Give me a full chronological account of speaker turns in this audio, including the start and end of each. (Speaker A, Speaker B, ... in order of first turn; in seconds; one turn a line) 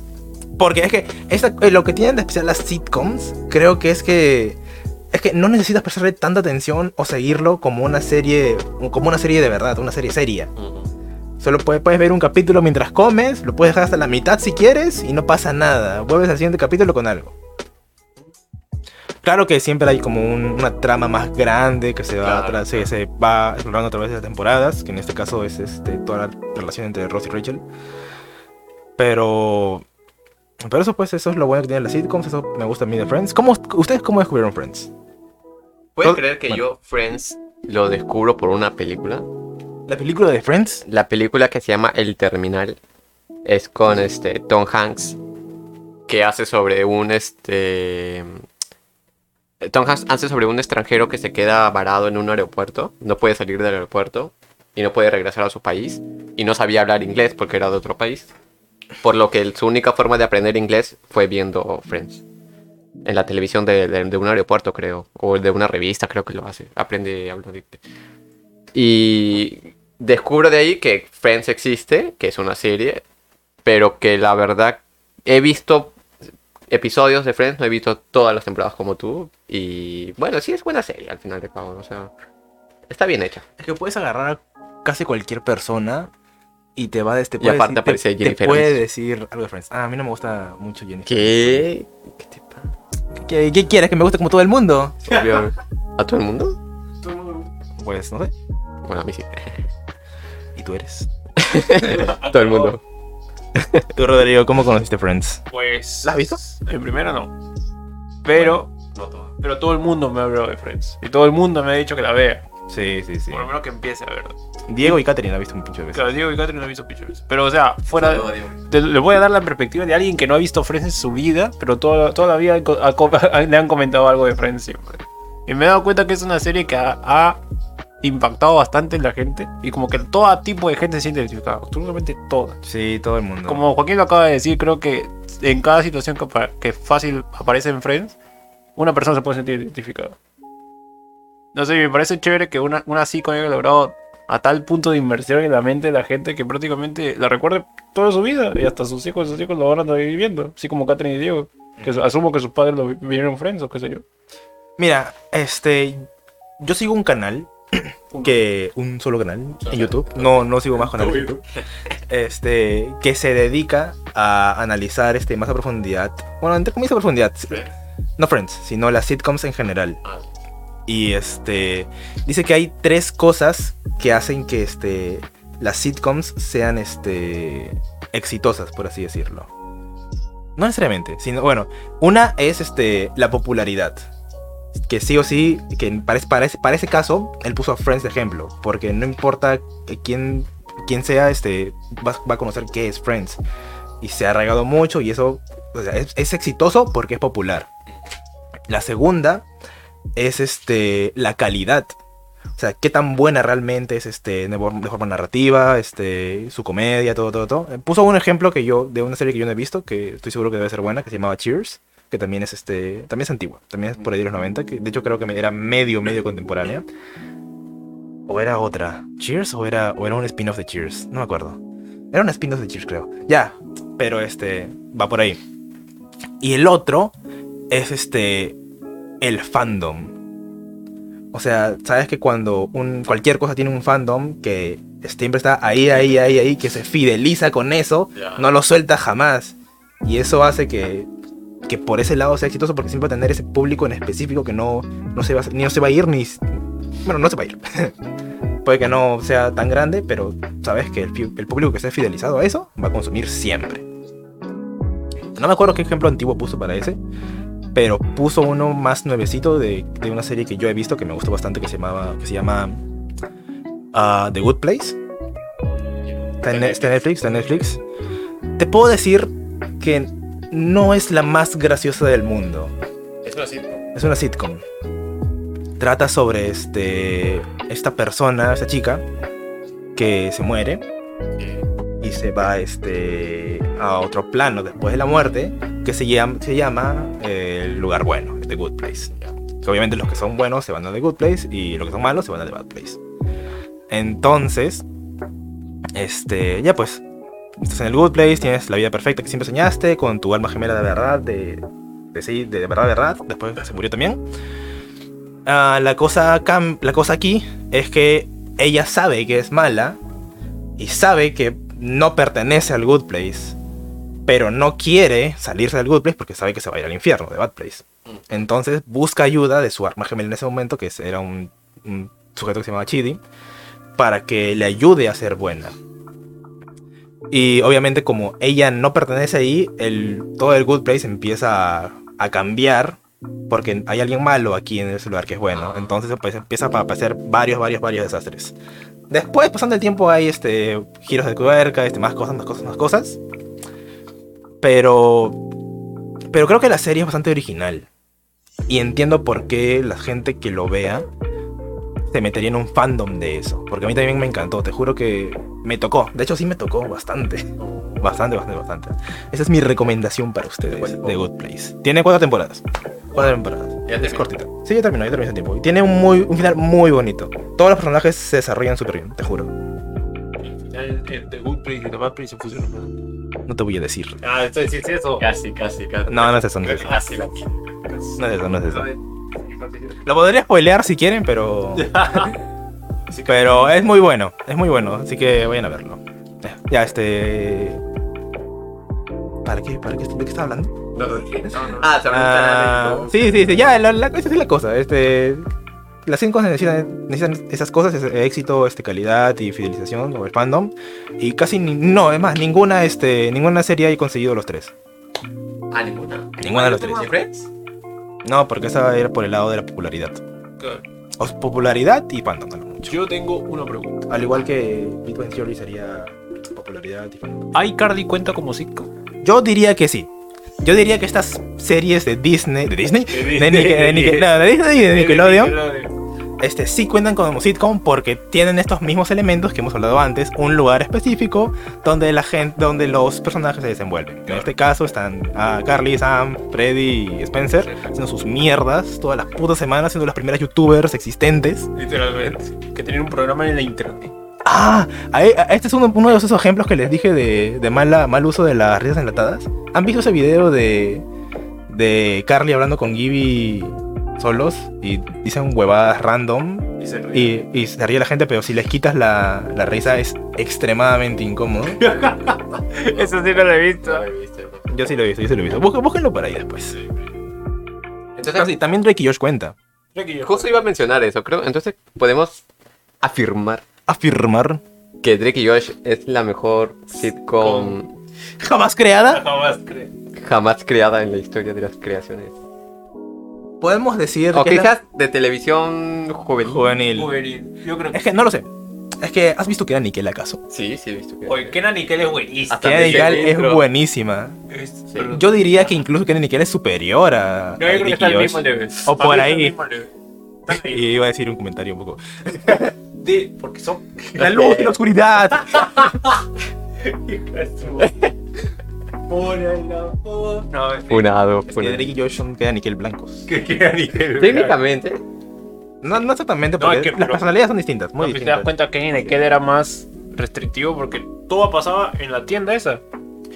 Speaker A: 0.6-4.6
Speaker A: 5.1-10.5
Speaker B: 10.6-10.9
Speaker A: 11.4-17.3
Speaker A: 19.2-27.6
Speaker B: 22.2-22.9
Speaker A: 29.0-29.9
Speaker A: 30.6-34.9
Speaker B: 36.0-39.3
Speaker A: 36.0-36.6
Speaker A: 39.9-40.8
Speaker B: 40.9-42.8
Speaker B: 43.5-45.2
Speaker B: 46.1-48.4
Speaker B: 49.6-58.3
Speaker B: 59.0-62.2
Speaker B: 63.0-67.8
Speaker B: 68.7-73.0
Speaker B: 73.7-76.0
Speaker B: 76.7-82.1
Speaker B: 82.9-83.5
Speaker A: 83.6-86.1
Speaker A: 86.8-91.7
Speaker B: 87.4-88.8
Speaker B: 91.1-92.7
Speaker A: 93.1-95.1
Speaker B: 95.0-96.6
Speaker C: 97.0-97.5
Speaker A: 97.8-98.3
Speaker B: 98.8-99.7
Speaker A: 100.6-101.1
Speaker B: 101.4-102.8
Speaker C: 101.8-102.8
Speaker A: 104.0-105.4
Speaker C: 105.5-107.3
Speaker A: 106.0-106.4
Speaker C: 108.2-108.7
Speaker A: 108.3-108.6
Speaker B: 108.9-109.3
Speaker C: 109.4-112.5
Speaker A: 112.7-113.5
Speaker C: 113.3-115.0
Speaker A: 114.7-116.1
Speaker C: 115.9-127.4
Speaker B: 117.9-118.5
Speaker C: 128.0-132.6
Speaker A: 132.6-133.6
Speaker C: 133.5-138.2
Speaker C: 138.8-140.2
Speaker C: 141.5-154.0
Speaker A: 154.8-156.1
Speaker A: 156.6-161.4
Speaker C: 158.1-158.4
Speaker B: 159.7-160.2
Speaker C: 160.8-161.3
Speaker A: 162.1-167.7
Speaker A: 168.2-170.0
Speaker A: 170.9-179.5
Speaker A: 180.6-184.0
Speaker A: 184.8-193.4
Speaker A: 194.0-197.7
Speaker A: 198.7-199.5
Speaker A: 200.2-202.0
Speaker A: 202.6-216.9
Speaker A: 218.3-221.6
Speaker A: 222.1-225.4
Speaker A: 226.4-227.2
Speaker A: 227.7-228.6
Speaker A: 229.2-230.1
Speaker A: 231.3-241.1
Speaker B: 238.2-238.4
Speaker A: 241.7-246.4
Speaker A: 247.1-247.9
Speaker A: 248.6-253.8
Speaker A: 255.3-257.0
Speaker A: 257.7-262.8
Speaker A: 263.9-265.0
Speaker B: 266.1-267.0
Speaker A: 266.4-267.8
Speaker A: 268.6-272.7
Speaker B: 273.2-273.9
Speaker A: 273.9-274.6
Speaker A: 275.8-279.1
Speaker A: 280.0-280.8
Speaker B: 281.4-281.7
Speaker A: 282.0-293.0
Speaker A: 293.9-294.9
Speaker A: 295.9-297.0
Speaker A: 297.6-304.2
Speaker A: 305.5-310.0
Speaker A: 310.8-313.6
Speaker A: 314.3-323.2
Speaker A: 324.0-325.8
Speaker A: 327.3-333.0
Speaker A: 333.5-338.6
Speaker B: 335.5-335.9
Speaker A: 339.1-343.2
Speaker A: 344.6-345.4
Speaker A: 346.3-347.9
Speaker A: 348.7-351.1
Speaker A: 352.1-369.5
Speaker B: 357.6-358.2
Speaker B: 360.7-361.2
Speaker B: 363.9-364.3
Speaker C: 370.5-372.9
Speaker A: 373.5-374.2
Speaker C: 374.2-375.3
Speaker B: 375.2-377.5
Speaker A: 376.1-377.0
Speaker C: 377.9-380.0
Speaker A: 378.2-378.9
Speaker A: 380.0-382.3
Speaker C: 381.8-382.4
Speaker C: 383.1-383.7
Speaker A: 383.2-387.8
Speaker A: 389.4-390.9
Speaker B: 390.9-393.6
Speaker A: 391.5-395.5
Speaker C: 391.5-391.8
Speaker A: 396.1-404.7
Speaker B: 405.7-407.5
Speaker A: 406.4-407.1
Speaker C: 406.5-407.1
Speaker A: 408.2-410.2
Speaker C: 410.6-410.9
Speaker A: 411.2-413.0
Speaker C: 412.9-414.1
Speaker A: 414.1-417.5
Speaker C: 417.5-418.9
Speaker A: 419.2-420.1
Speaker A: 420.6-425.6
Speaker C: 423.1-425.9
Speaker A: 426.4-441.7
Speaker C: 437.6-437.9
Speaker C: 441.8-444.1
Speaker A: 444.4-451.1
Speaker A: 451.7-461.8
Speaker C: 456.8-457.4
Speaker C: 461.8-464.1
Speaker B: 462.9-463.1
Speaker B: 463.8-464.8
Speaker A: 464.7-466.8
Speaker B: 468.2-468.5
Speaker A: 468.3-469.6
Speaker C: 469.9-470.7
Speaker B: 470.2-472.4
Speaker B: 473.0-473.6
Speaker A: 473.9-474.6
Speaker B: 475.0-477.9
Speaker C: 477.4-477.8
Speaker A: 478.4-479.2
Speaker C: 479.1-479.9
Speaker B: 480.2-482.4
Speaker A: 483.6-484.7
Speaker B: 484.3-486.6
Speaker A: 486.4-487.1
Speaker C: 486.9-488.0
Speaker A: 487.9-488.5
Speaker A: 489.0-490.4
Speaker B: 490.5-491.6
Speaker C: 491.3-493.3
Speaker B: 492.5-493.6
Speaker A: 492.6-494.4
Speaker C: 494.5-495.3
Speaker B: 494.9-495.2
Speaker A: 495.1-499.6
Speaker C: 497.6-499.9
Speaker C: 500.5-500.9
Speaker A: 500.5-502.7
Speaker C: 503.0-504.6
Speaker A: 504.2-505.8
Speaker B: 504.2-504.7
Speaker C: 505.4-506.0
Speaker C: 506.8-507.9
Speaker B: 507.8-508.1
Speaker C: 509.1-511.1
Speaker B: 510.9-511.9
Speaker A: 511.5-513.3
Speaker C: 513.3-514.6
Speaker B: 514.2-515.0
Speaker A: 515.8-518.5
Speaker C: 516.6-517.3
Speaker C: 518.0-522.8